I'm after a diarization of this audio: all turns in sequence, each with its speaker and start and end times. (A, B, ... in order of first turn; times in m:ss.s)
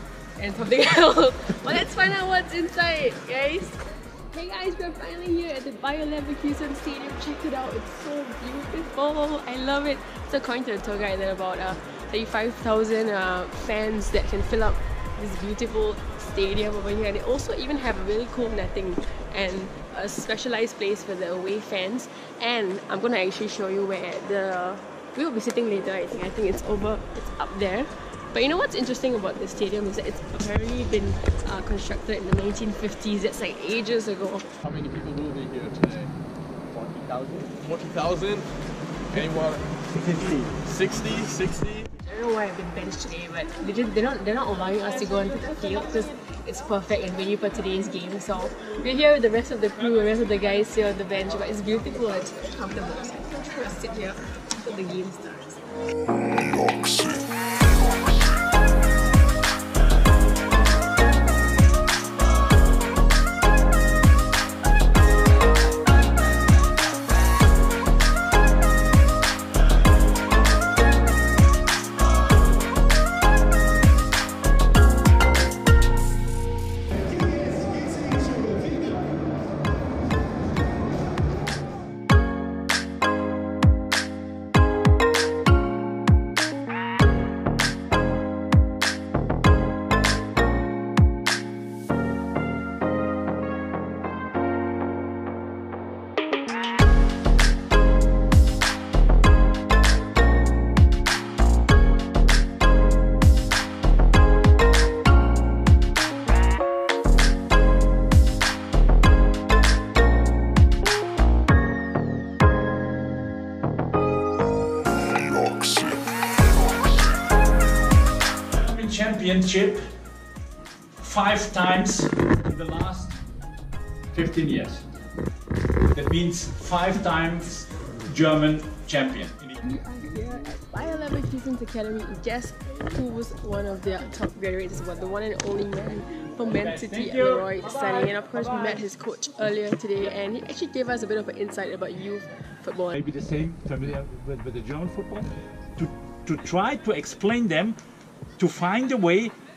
0:00.4-0:03.8 A
0:04.3-0:34.4 A
0:34.6-0:36.1 B
0:36.7-0:38.5 B
0:39.1-0:41.9 B
0:42.0-0:55.6 A
1:58.5-1:59.8 C
2:01.0-2:03.2 C
2:04.1-2:04.8 C
2:05.9-2:09.5 C
2:09.6-2:23.0 A
2:16.5-2:17.6 C
2:22.9-2:27.8 C
2:28.4-2:29.3 C